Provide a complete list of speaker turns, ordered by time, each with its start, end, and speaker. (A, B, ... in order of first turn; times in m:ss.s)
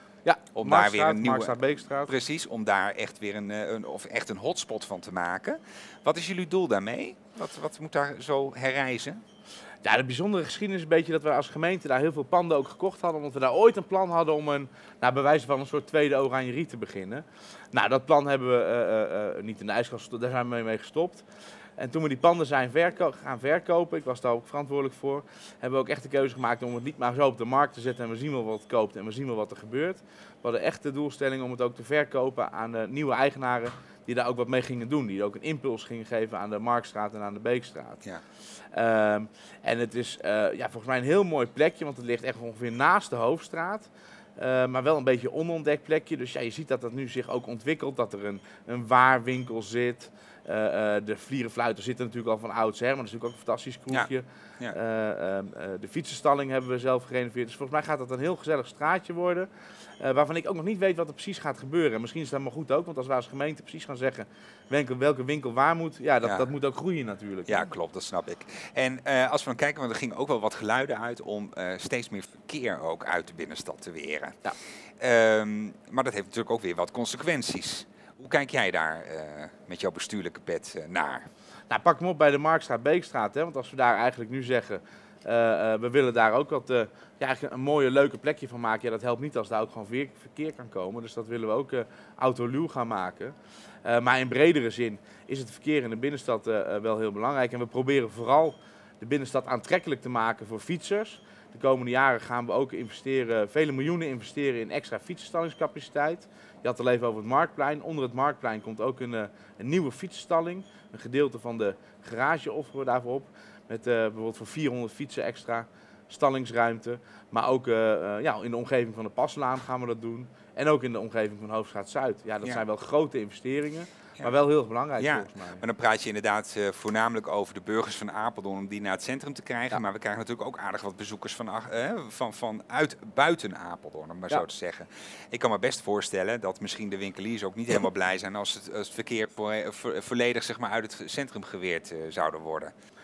0:00.2-0:02.1 A
0:00.6-0:09.2 B
0:09.8-0:21.2 A
0:21.8-0:38.0 A
0:38.7-0:59.5 A
1:00.0-1:07.7 A
1:07.5-1:14.4 B
1:15.0-1:21.3 B
1:21.7-2:05.6 A
2:05.0-2:22.7 B